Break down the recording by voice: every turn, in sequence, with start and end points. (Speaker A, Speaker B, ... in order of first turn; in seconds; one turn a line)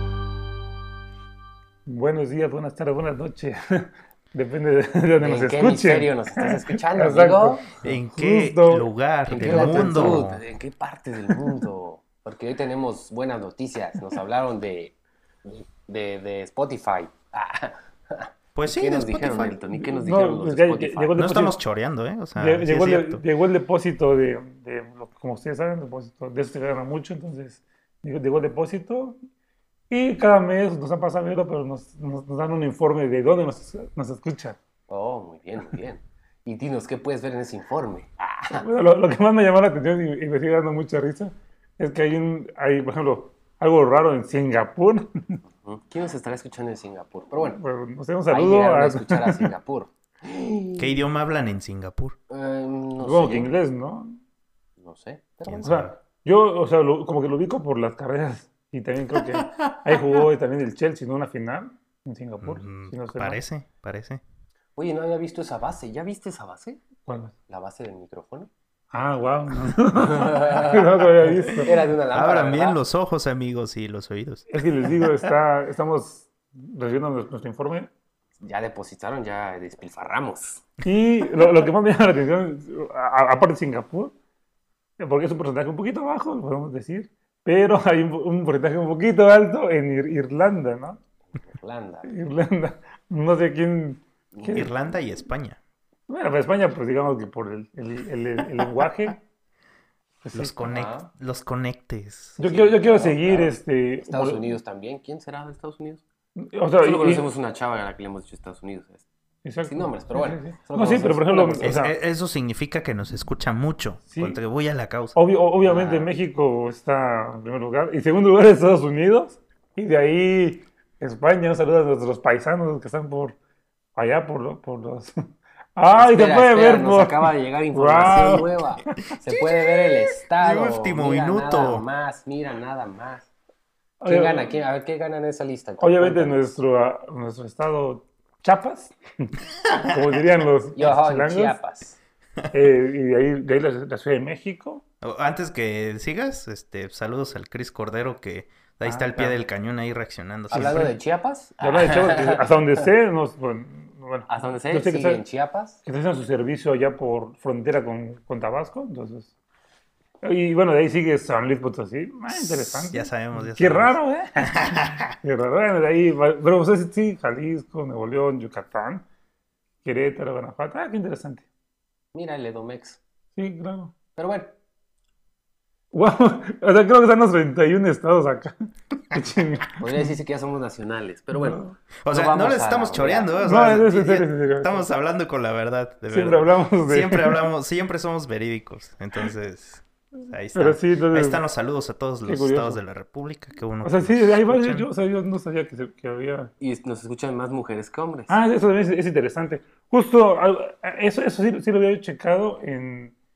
Speaker A: 1.9-10.2
Speaker B: 5.2-7.6
Speaker C: 7.8-10.4
Speaker B: 9.3-21.1
Speaker C: 18.6-19.6
Speaker A: 19.7-21.6
Speaker C: 21.2-23.2
Speaker A: 22.4-29.2
Speaker A: 29.9-34.6
Speaker B: 34.9-38.6
Speaker A: 38.6-45.4
Speaker B: 45.6-47.6
Speaker A: 47.4-49.5
Speaker B: 48.3-51.0
Speaker C: 50.8-52.2
Speaker B: 52.3-53.5
Speaker A: 53.0-54.2
Speaker B: 54.8-55.9
Speaker C: 55.5-55.9
Speaker A: 55.6-63.4
Speaker C: 62.4-64.2
Speaker B: 64.8-66.8
Speaker A: 67.1-67.3
Speaker B: 67.5-68.5
Speaker A: 68.9-71.7
Speaker B: 70.0-71.0
Speaker B: 71.5-72.8
Speaker C: 72.1-75.1
Speaker A: 74.5-77.9
Speaker B: 78.4-80.7
Speaker A: 80.8-84.1
Speaker A: 85.0-91.0
Speaker B: 91.3-92.1
Speaker A: 92.0-94.7
Speaker B: 94.3-94.7
Speaker C: 94.5-95.6
Speaker A: 96.1-99.2
Speaker A: 100.2-100.5
Speaker C: 100.3-102.4
Speaker B: 100.7-101.1
Speaker A: 102.4-104.5
Speaker B: 102.4-106.0
Speaker A: 106.4-107.2
Speaker B: 106.8-109.0
Speaker A: 109.4-111.9
Speaker B: 109.7-111.7
Speaker C: 111.6-115.2
Speaker A: 114.1-114.4
Speaker A: 115.1-123.4
Speaker B: 115.7-116.1
Speaker A: 124.0-125.1
Speaker A: 125.8-129.0
Speaker B: 126.0-133.3
Speaker C: 130.4-131.8
Speaker A: 134.0-134.5
Speaker B: 134.1-136.4
Speaker A: 135.8-141.6
Speaker B: 140.8-142.0
Speaker A: 142.5-144.8
Speaker C: 145.0-150.9
Speaker A: 148.8-149.3
Speaker B: 150.5-152.8
Speaker A: 150.5-150.9
Speaker A: 151.6-155.2
Speaker B: 154.3-155.8
Speaker A: 155.8-159.3
Speaker A: 160.2-169.0
Speaker C: 162.3-164.0
Speaker C: 164.5-165.1
Speaker A: 169.8-171.4
Speaker B: 172.1-173.0
Speaker A: 173.4-173.9
Speaker B: 174.2-174.6
Speaker A: 175.9-180.0
Speaker B: 179.8-183.3
Speaker A: 181.3-181.8
Speaker C: 182.0-194.9
Speaker A: 183.4-184.9
Speaker A: 186.1-187.4
Speaker A: 190.5-191.4
Speaker A: 192.2-192.8
Speaker A: 193.8-196.5
Speaker B: 196.6-198.4
Speaker A: 198.3-203.1